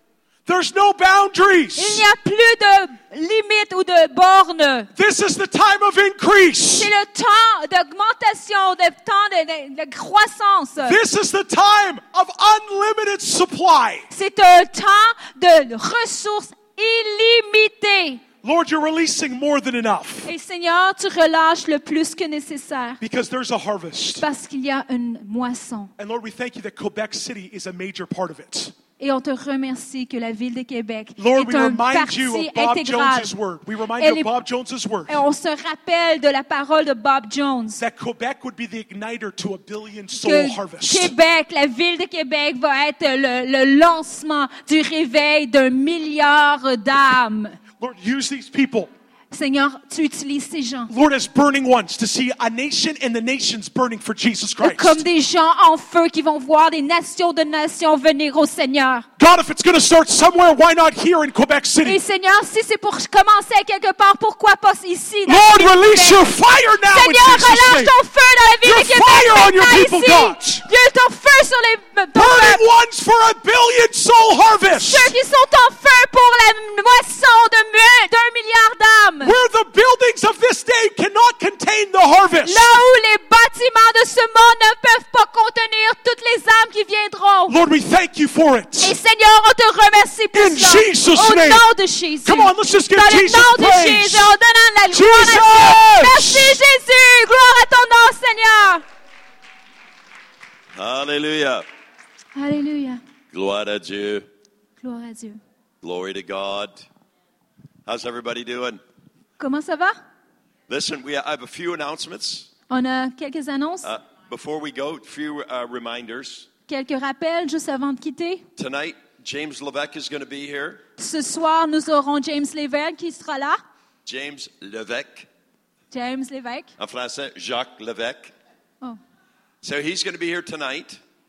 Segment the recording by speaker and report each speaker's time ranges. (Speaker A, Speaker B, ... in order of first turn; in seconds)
Speaker A: 0.5-2.0, 5.0-6.9, 10.8-14.1, 18.4-20.3, 23.0-24.2, 26.0-28.7, 31.2-35.2, 37.8-41.1, 47.8-48.9, 50.9-55.0, 59.2-62.0, 65.3-68.0, 68.6-70.7, 72.1-75.1, 79.2-82.7, 87.5-89.0, 90.3-91.7, 92.2-94.3, 94.9-96.6
Speaker B: 1.8-4.9, 6.7-11.0, 14.1-18.2, 20.2-23.0, 24.2-25.9, 29.0-33.3, 34.0-34.3, 35.1-37.8, 40.2-47.6, 49.3-50.9, 54.6-59.1, 61.8-66.3, 66.9-72.6, 74.8-79.3, 82.4-87.6, 88.8-98.8, 102.3-103.0, 104.8-105.4, 109.4-110.0, 112.7-113.9, 116.7-118.5, 121.0-123.6, 125.9-126.7
Speaker C: 100.7-101.7, 103.3-104.3, 105.8-106.8, 107.9-108.8, 110.7-112.5, 113.8-116.5, 118.6-120.8, 124.0-125.3, 126.8-128.3, 129.6-131.0